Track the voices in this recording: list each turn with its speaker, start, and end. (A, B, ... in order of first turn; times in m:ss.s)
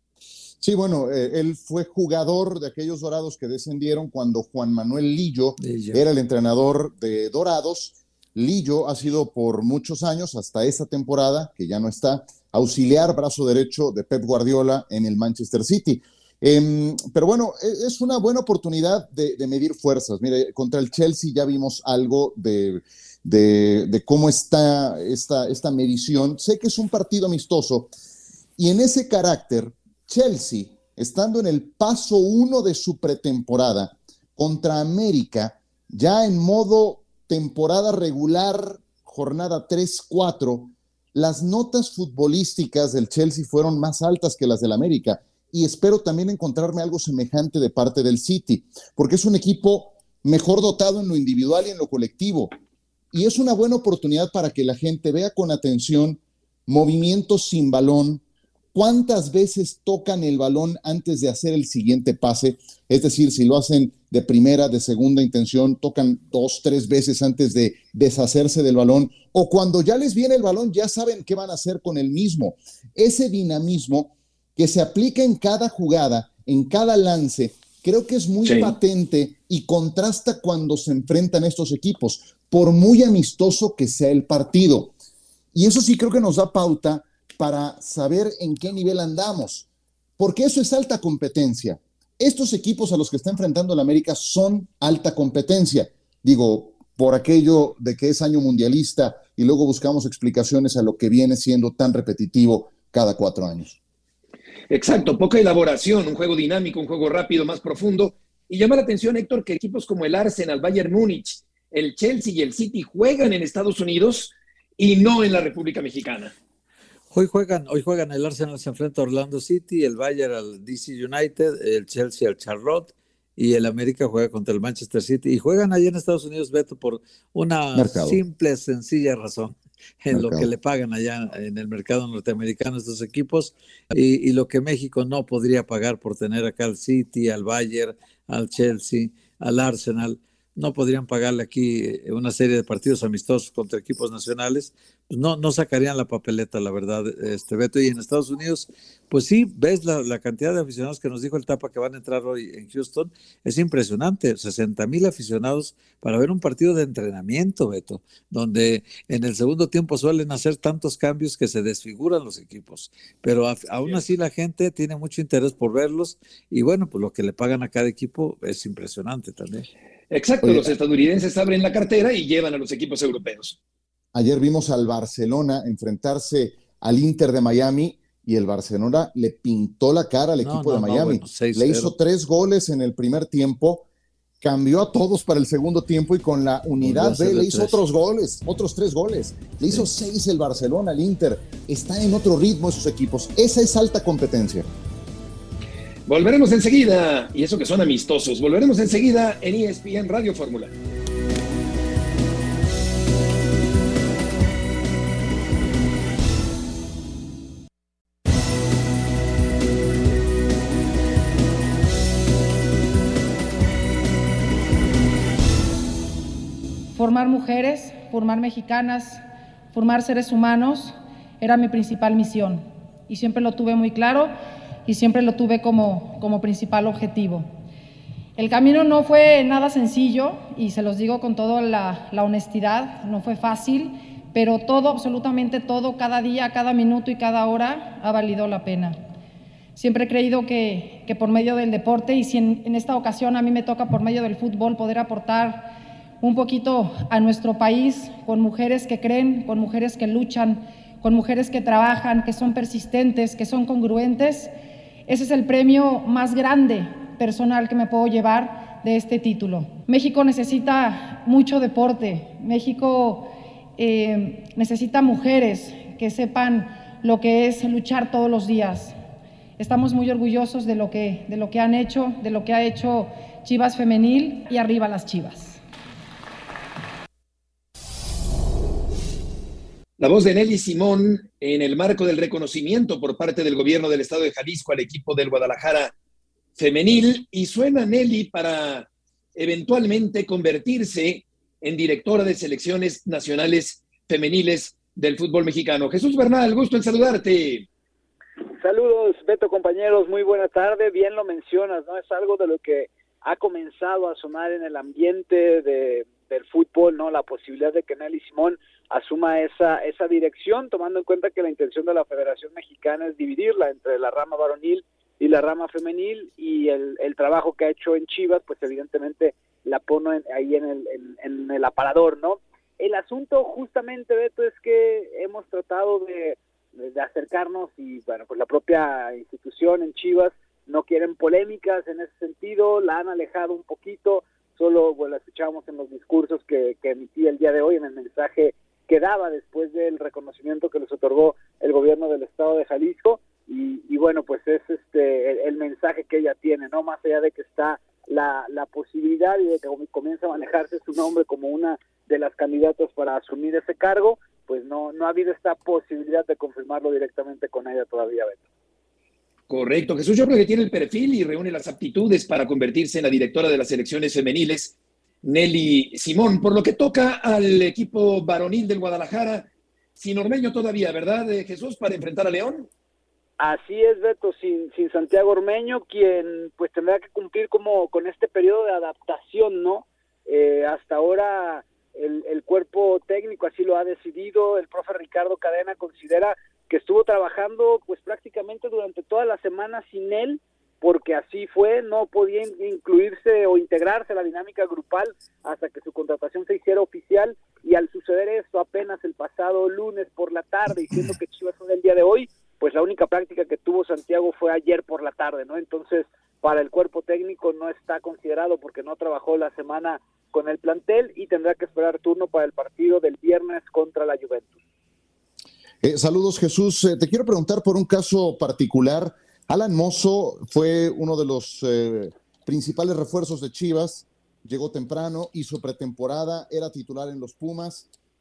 0:00.6-0:27.9 A
0:05.6-0:06.0 B
0:28.6-0:52.5 A
0:53.1-0:58.2 A
0:58.7-1:24.9 A
1:18.4-1:18.7 C
1:25.5-1:29.6 A
1:30.2-1:43.8 A
1:44.7-1:56.3 C
1:57.1-2:49.7 B
2:07.7-2:08.2 A
2:10.1-2:10.5 A
2:50.1-2:53.6 C
2:50.4-2:50.7 A
2:54.1-3:03.8 A
3:00.4-3:01.9 B
3:04.4-3:14.7 A
3:06.8-3:07.8 B
3:16.1-3:20.7 C
3:36.9-3:44.3 D
3:44.8-3:47.5 D
3:48.4-3:59.0 D
3:59.7-4:14.5 D
4:15.0-4:29.0 D
4:29.6-4:35.6 D
4:40.0-4:45.9 C
4:46.6-4:57.6 C
4:58.6-5:58.4 E
5:59.5-6:12.7 C
6:13.4-6:54.5 E
6:55.8-7:07.9 A